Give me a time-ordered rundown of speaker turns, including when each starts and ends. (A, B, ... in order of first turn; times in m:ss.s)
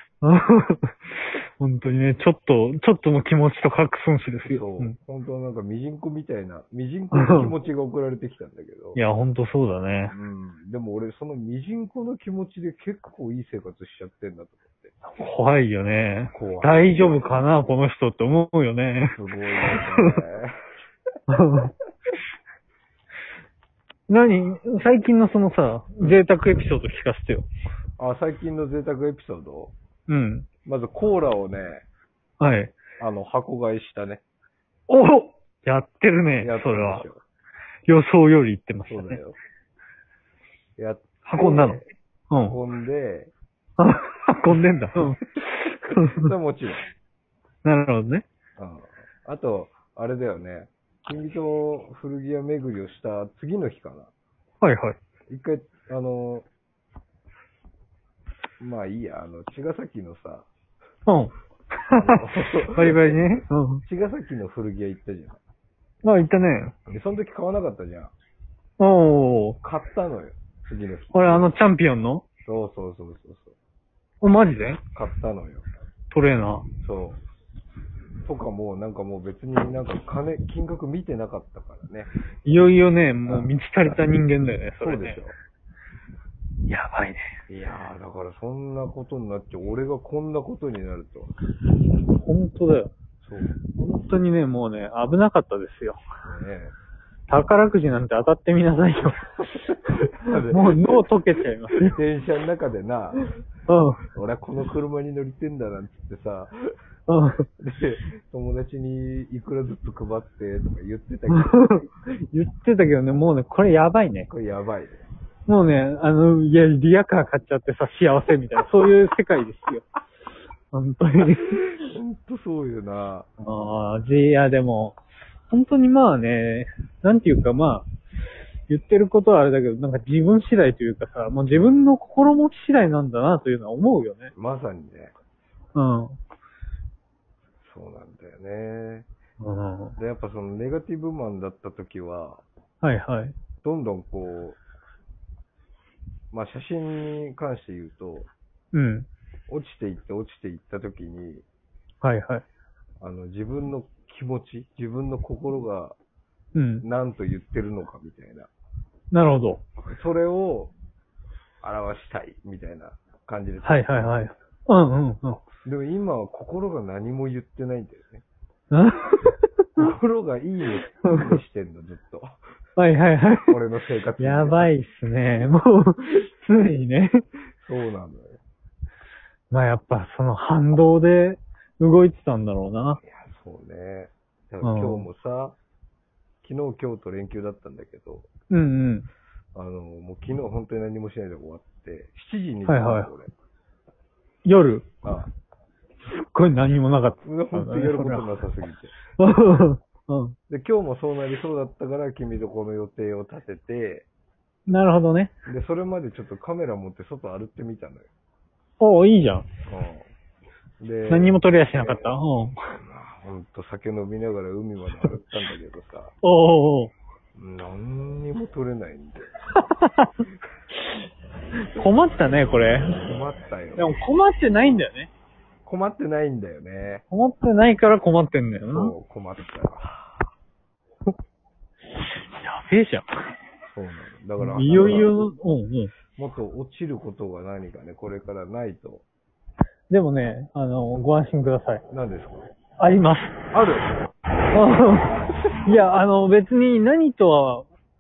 0:00.2-0:04.9 A
0:04.4-0:09.0 B
0:07.1-0:07.5 A
0:09.0-0:10.1 A
0:10.1-0:14.9 B
0:15.1-0:19.2 A
0:16.3-0:17.4 B
0:19.2-0:20.6 B
0:19.7-0:20.1 A
0:21.3-0:21.7 A
0:24.1-0:27.5 A
0:28.0-0:29.7 B
0:30.1-0:30.5 A
0:30.6-0:31.8 B
0:32.4-0:32.8 A
0:33.0-0:34.2 B
0:34.9-0:37.0 A
0:36.4-0:37.2 B
0:37.9-0:39.2 A
0:38.9-0:39.4 B
0:40.8-0:41.9 B
0:41.2-0:42.6 A
0:42.5-0:43.3 B
0:43.8-0:46.3 A
0:46.0-0:46.9 B
0:47.6-0:48.2 A
0:48.6-0:54.1 B
0:54.6-0:55.0 A
0:55.3-0:56.5 B
0:58.6-1:00.5 B
1:01.1-1:01.4 A
1:01.9-1:03.8 A
1:02.0-1:05.4 B
1:06.0-1:06.8 A
1:06.9-1:08.1 B
1:08.8-1:09.6 A
1:09.6-1:11.5 B
1:11.1-1:12.2 A
1:12.5-1:13.6 B
1:14.2-1:14.8 A
1:14.9-1:15.7 B
1:16.1-1:16.7 A
1:16.8-1:17.2 B
1:18.2-1:22.1 B
1:22.4-1:25.2 A
1:24.8-1:25.4 B
1:26.7-1:27.3 A
1:27.5-1:31.3 B
1:32.2-1:32.9 A
1:33.2-1:33.6 B
1:33.8-1:36.0 A
1:36.2-1:36.8 B
1:37.3-1:39.5 A
1:39.4-1:41.0 B
1:40.4-1:42.0 A
1:41.7-1:43.4 B
1:43.7-1:44.0 A
1:44.1-1:46.6 B
1:47.1-1:47.5 A
1:47.6-1:51.9 B
1:51.3-1:54.3 A
1:54.3-1:55.0 B
1:55.5-1:59.8 A
2:00.7-2:01.8 A
2:01.8-2:03.3 B
2:03.4-2:07.9 A
2:08.7-2:14.3 A
2:14.4-2:15.1 B
2:15.8-2:16.2 A
2:17.6-2:19.1 B
2:19.4-2:20.0 A
2:20.0-2:22.4 B
2:22.8-2:23.4 A
2:23.6-2:24.6 B
2:26.3-2:28.3 B
2:28.7-2:29.1 A
2:29.5-2:31.5 B
2:32.0-2:32.4 A
2:33.0-2:36.0 B
2:36.6-2:36.8 A
2:36.8-2:38.5 B
2:39.1-2:39.6 A
2:39.9-2:40.7 B
2:41.6-2:44.2 B
2:43.6-2:45.4 A
2:45.6-2:48.2 B
2:48.7-2:49.9 A
2:49.8-2:52.4 B
2:51.1-2:51.4 A
2:52.8-2:53.6 A
2:53.5-2:54.7 B
2:54.2-2:57.2 A
2:57.6-2:58.4 B
2:59.5-3:03.0 A
3:03.0-3:05.6 B
3:04.6-3:05.1 A
3:06.4-3:08.3 B
3:08.5-3:09.1 A
3:09.6-3:13.3 B
3:12.7-3:13.1 A
3:14.4-3:14.9 A
3:15.0-3:15.3 B
3:16.0-3:18.3 A
3:17.2-3:19.0 B
3:19.2-3:20.4 A
3:20.5-3:24.1 B
3:24.7-3:25.3 A
3:25.5-3:28.1 B
3:28.8-3:29.5 A
3:29.7-3:30.1 B
3:30.8-3:32.2 B
3:31.1-3:32.6 A
3:32.7-3:36.1 B
3:36.2-3:36.9 A
3:37.4-3:39.3 B
3:39.7-3:40.1 A
3:41.7-3:43.0 A
3:42.9-3:44.0 B
3:43.8-3:45.1 A
3:45.6-3:47.0 B
3:47.1-3:48.9 A
3:48.7-3:50.2 B
3:52.3-3:53.1 A
3:53.7-3:55.1 B
3:54.4-3:55.9 A
3:56.2-3:59.0 B
3:59.9-4:01.8 A
4:01.9-4:02.5 B
4:02.8-4:03.4 A
4:03.5-4:03.9 B
4:04.5-4:07.7 A